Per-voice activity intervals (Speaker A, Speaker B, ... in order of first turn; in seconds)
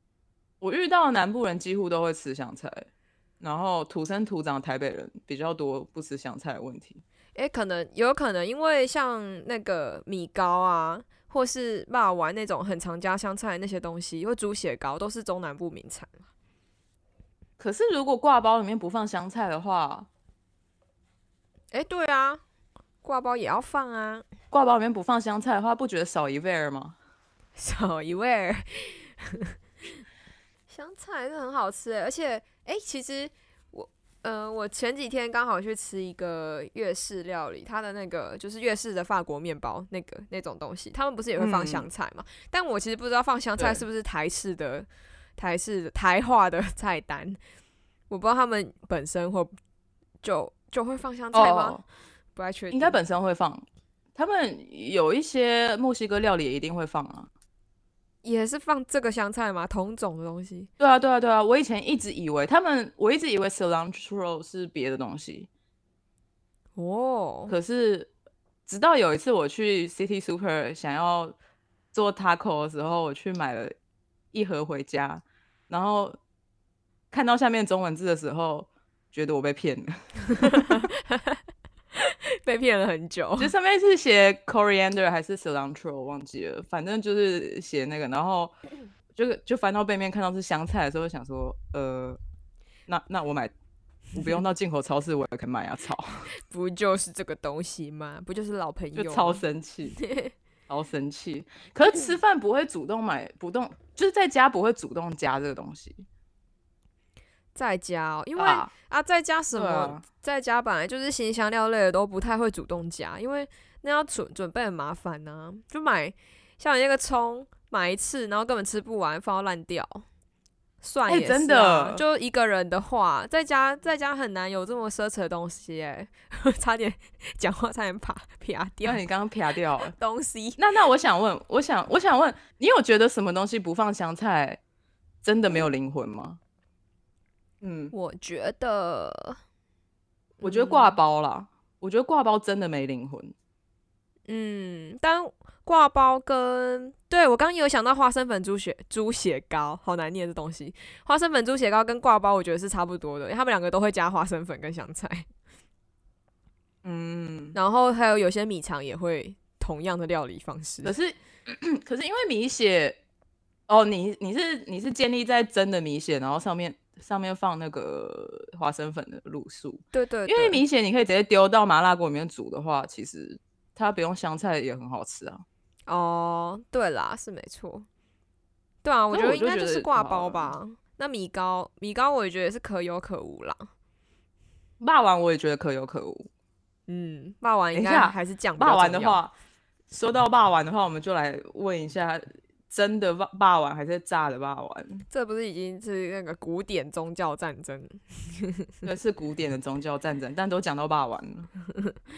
Speaker A: 0.6-2.9, 3.4-7.0, 17.6-20.1, 24.5-26.9, 41.4-41.9, 43.6-43.8, 51.3-51.8, 52.7-57.3, 60.8-65.5, 67.5-68.1, 68.7-71.3, 71.9-73.7, 74.3-76.2, 77.1-80.8, 83.4-88.5, 89.1-92.2, 92.9-93.5, 94.1-96.3, 98.9-100.0, 100.7-106.0, 108.3-108.7, 109.5-110.0, 121.1-122.0, 128.8-129.9, 130.6-134.6, 135.2-136.4, 137.6-137.9, 140.4-143.3, 156.8-157.6, 160.8-163.0, 163.7-175.4, 179.1-180.5, 184.8-186.3, 187.7-189.3, 189.9-195.1, 198.8-201.5
Speaker B: 7.3-16.1, 21.7-22.4, 23.0-24.2, 27.6-29.5, 30.7-47.4, 48.1-49.5, 50.2-51.8, 52.4-53.0, 58.2-60.7, 66.8-67.5, 80.4-81.4, 81.9-83.5, 96.5-99.4, 100.0-100.3, 107.5-120.0, 120.8-129.0, 129.9-130.6, 137.9-139.4, 140.4-141.0, 144.3-155.3, 157.5-160.9, 169.9-170.6, 175.9-177.9, 178.8-183.7, 186.9-189.2, 195.1-198.8